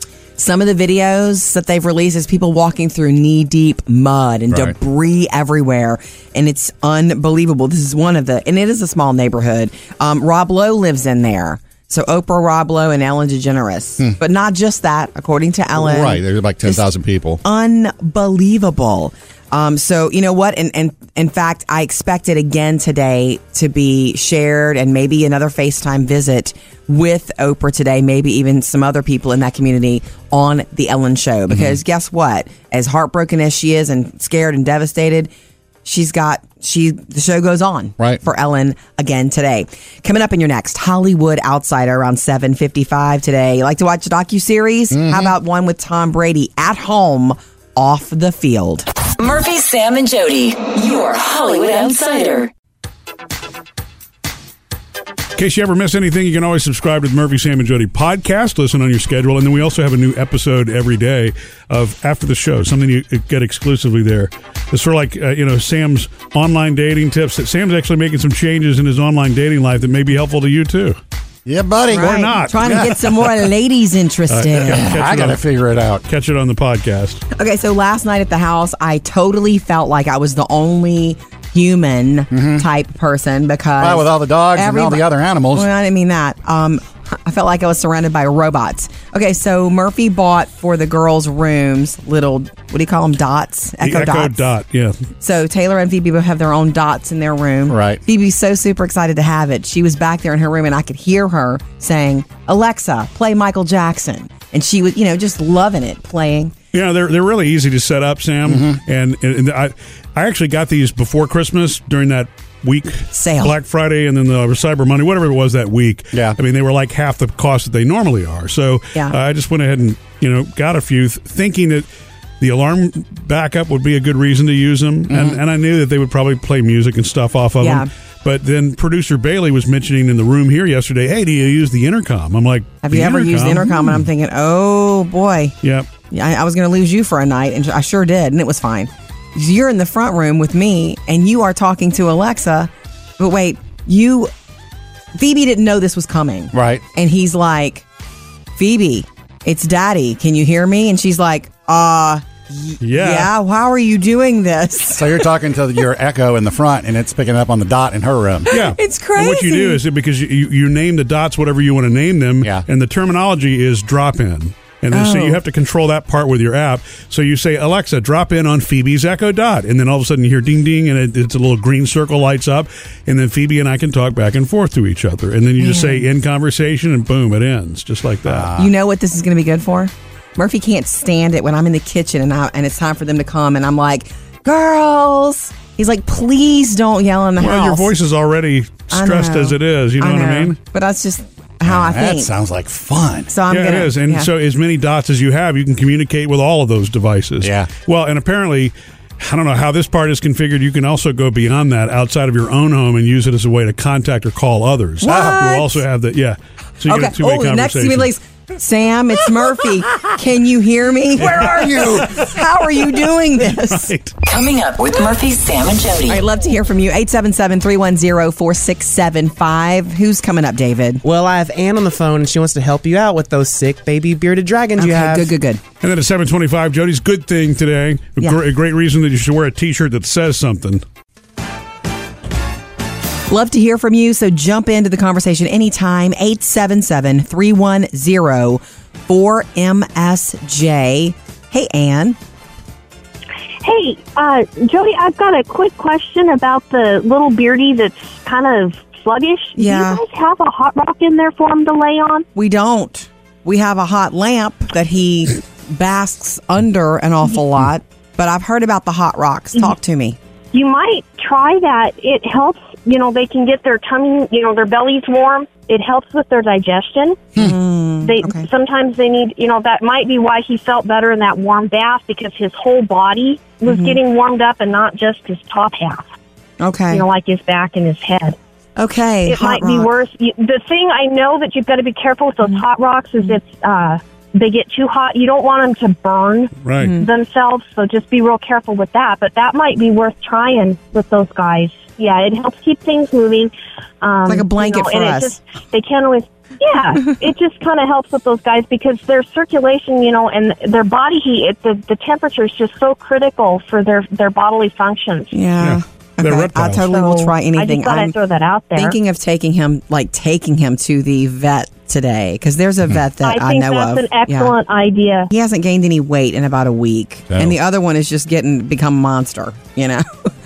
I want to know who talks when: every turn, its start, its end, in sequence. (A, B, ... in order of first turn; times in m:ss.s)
0:00.4-0:16.8 A
0:04.5-0:04.8 B
0:15.8-0:17.4 B
0:17.4-0:35.3 A
0:31.5-0:31.8 B
0:35.8-0:48.9 A
0:44.9-0:45.3 B
0:49.2-0:52.5 C
0:55.4-1:11.0 D
1:11.5-1:13.0 B
1:11.9-1:14.9 A
1:11.9-1:12.9 D
1:14.3-1:15.4 D
1:14.6-1:16.0 B
1:16.0-1:17.2 D
1:17.4-1:34.4 A
1:22.3-1:22.7 B
1:23.8-1:25.7 B
1:33.8-1:35.0 D
1:35.2-1:46.5 A
1:37.7-1:38.0 B
1:46.7-2:01.9 D
1:48.5-1:48.8 B
1:53.1-1:53.6 A
2:02.4-2:14.0 D
2:05.1-2:05.4 B
2:07.6-2:07.9 A
2:12.8-2:15.6 A
2:15.6-2:15.9 D
2:16.1-2:24.3 A
2:25.2-2:27.8 A
2:26.5-2:26.8 B
2:28.6-2:35.2 A
2:32.8-2:33.3 D
2:34.9-2:38.5 B
2:38.5-2:58.5 D
2:38.5-2:39.8 A
2:44.9-2:45.4 A
2:55.6-2:56.1 A
2:58.2-2:58.7 B
2:58.6-3:07.9 A
3:07.4-3:10.6 D
3:08.9-3:12.3 A
3:11.6-3:13.3 B
3:13.3-3:14.3 A
3:13.5-3:28.1 D
3:17.4-3:17.7 B
3:25.0-3:25.8 A
3:25.1-3:25.4 B
3:26.9-3:33.9 A
3:31.2-3:32.2 D
3:31.2-3:32.2 B
3:33.6-3:34.1 D
3:34.3-3:36.2 C
3:36.1-3:41.0 A
3:41.0-3:45.3 E
3:44.8-3:45.6 A
3:45.8-3:50.8 D
3:53.3-4:02.2 A
4:03.6-4:12.3 F
4:09.6-4:10.0 A
4:12.4-4:20.2 A
4:20.5-4:27.4 F
4:27.4-4:28.5 A
4:28.0-4:36.1 F
4:33.7-4:34.0 A
4:36.6-4:37.0 A
4:36.9-4:38.4 F
4:38.8-4:39.9 A
4:39.3-5:05.3 F
4:46.6-4:46.9 D
4:46.8-4:47.1 A
4:54.3-4:55.4 A
5:05.3-5:08.2 A
5:05.6-5:06.9 D
5:06.9-5:09.0 F
5:08.8-5:14.6 A
5:13.2-5:15.3 F
5:15.3-5:20.1 A
5:17.3-5:17.6 B